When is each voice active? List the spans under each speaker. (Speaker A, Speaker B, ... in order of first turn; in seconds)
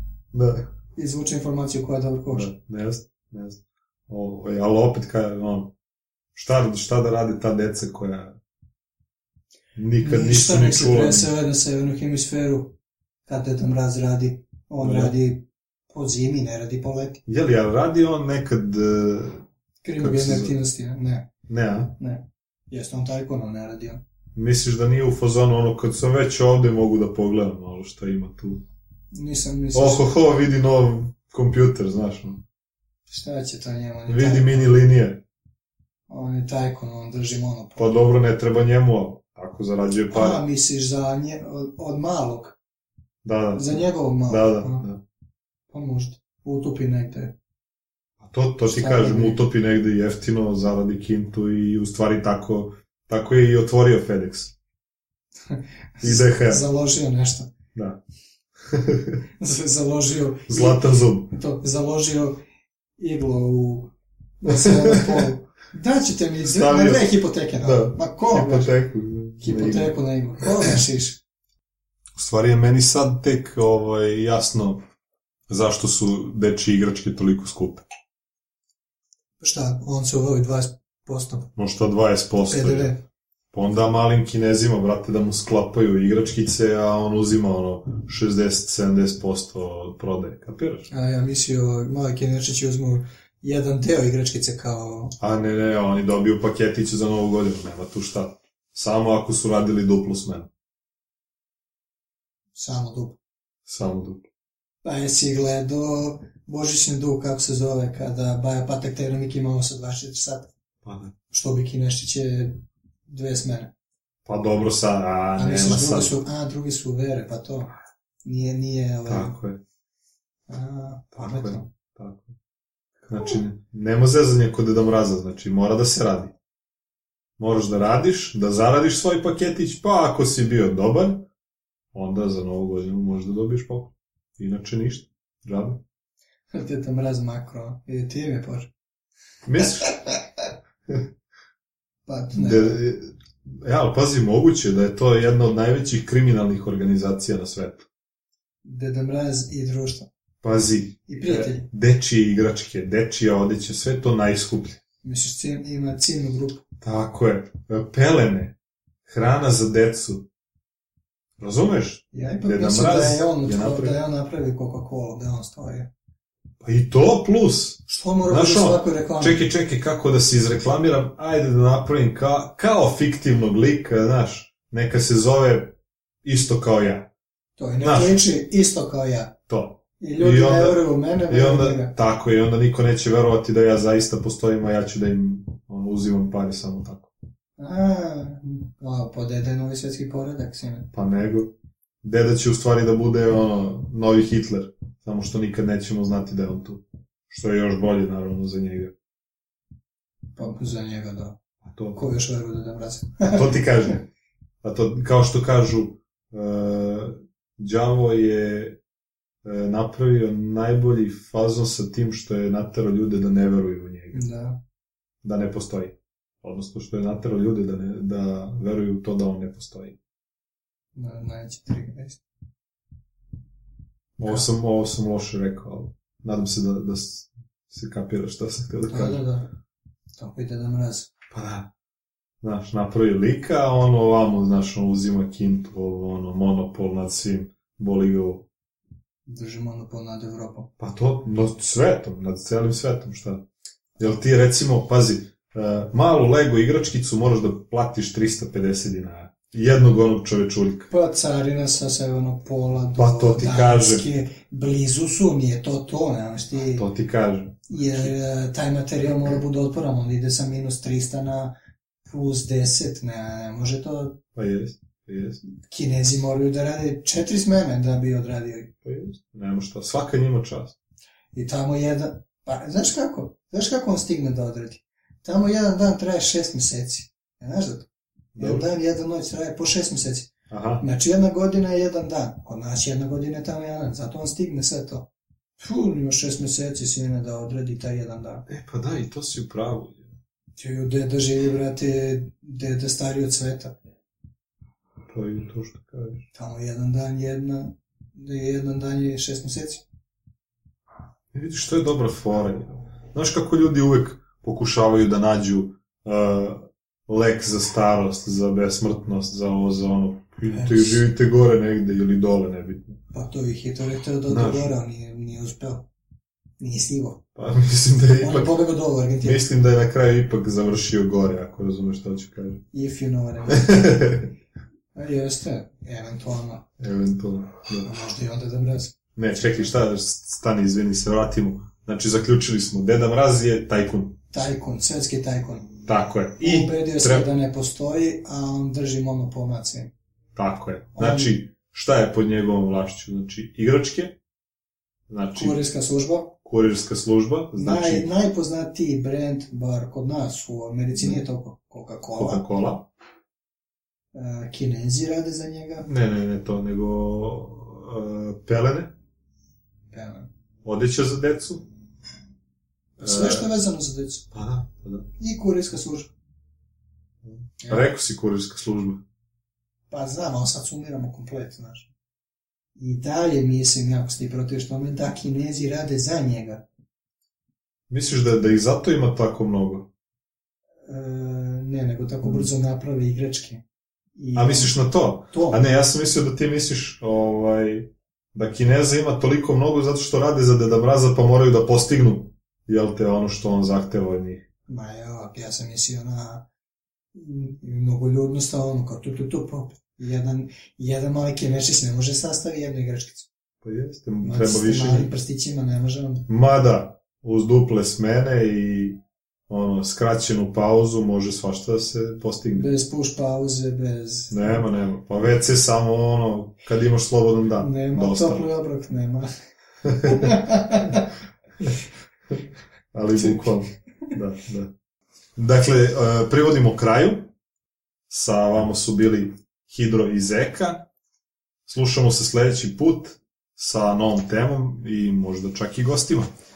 Speaker A: 0.3-0.7, 2.3-5.7, 6.3-8.4, 9.8-11.3, 14.8-15.2, 17.3-19.4, 20.0-20.5, 21.5-22.0, 24.4-28.6, 29.7-32.4, 34.1-35.2, 37.8-40.4, 43.2-45.0, 48.2-54.5, 56.0-56.6, 57.8-58.0, 58.6-59.2, 60.5-61.3, 64.5-65.3, 66.4-70.7, 72.2-74.8, 75.5-77.8, 81.6-82.9, 83.5-90.9, 95.2-100.5, 103.7-104.3, 110.8-111.1, 114.3-116.2, 119.1-119.6, 121.2-122.3, 123.1-126.3, 127.4-131.3, 131.9-135.8, 139.4-139.9, 142.3-147.9, 150.4-154.8, 156.8-158.6, 159.1-160.3, 161.4-164.0, 166.6-177.1, 177.8-178.2, 179.5-187.1, 190.9-198.9, 201.6-202.0, 203.2-204.1, 204.6-208.8, 209.4-214.2, 215.2-220.0, 224.2-229.2, 231.3-231.7, 232.4-238.5, 240.8-243.4, 244.0-250.9, 252.9-254.1, 256.7-258.1, 264.4-265.4, 268.8-270.8, 278.4-278.6, 280.5-280.9, 288.5-290.1, 295.1-296.3, 301.3-313.0, 314.3-314.8, 317.4-318.6, 319.2-322.6, 323.5-324.3, 326.8-327.9, 329.2-334.2, 335.9-337.3, 340.4-344.2, 345.1-345.6, 346.4-348.1, 350.9-351.2, 352.1-352.9, 355.9-358.9, 360.6-361.6, 363.0-363.5, 364.3-365.1, 367.3-369.0, 377.9-379.9, 384.4-394.4, 403.6-405.1, 406.3-409.0, 409.5-412.7, 414.3-418.5, 419.9-420.4, 422.9-424.7, 425.4-427.3, 428.1-430.9, 431.7-436.3
Speaker B: 1.0-2.5, 9.9-12.8, 13.3-17.2, 19.8-21.3, 22.0-24.0, 29.1-30.0, 33.1-34.8, 36.1-38.0, 40.1-42.6, 43.5-44.9, 45.7-47.3, 48.6-49.4, 55.5-57.5, 59.4-62.4, 63.0-68.7, 69.4-71.2, 79.4-81.5, 82.5-83.0, 90.9-95.1, 102.5-103.2, 104.8-110.5, 111.3-112.6, 113.1-113.7, 115.4-117.7, 118.2-119.4, 120.5-121.7, 136.5-138.7, 139.6-140.2, 142.1-142.8, 148.6-150.1, 151.1-151.7, 155.0-156.6, 162.1-165.9, 167.9-169.4, 177.6-179.3, 180.0-181.9, 187.6-190.9, 200.4-201.4, 201.9-203.6, 214.1-214.6, 220.9-222.2, 228.9-229.5, 230.2-231.1, 239.3-240.7, 250.9-256.9, 257.7-261.5, 262.1-264.2, 265.6-268.7, 271.3-285.1, 285.6-288.4, 290.6-293.8, 296.3-299.8, 310.5-311.0, 313.1-315.9, 316.6-317.2, 318.2-319.4, 322.7-324.0, 324.9-326.6, 327.8-328.9, 334.3-335.7, 336.4-339.9, 341.0-341.3, 345.4-346.4, 347.6-352.4, 354.1-355.9, 359.9-360.3, 363.0-364.3, 365.2-366.1, 367.6-367.9, 369.9-371.9, 372.8-376.6, 380.9-383.6, 384.2-384.8, 385.3-385.6, 394.7-396.4, 397.1-403.3, 404.2-406.3, 412.5-414.6, 417.6-419.3, 420.0-421.1, 423.2-423.4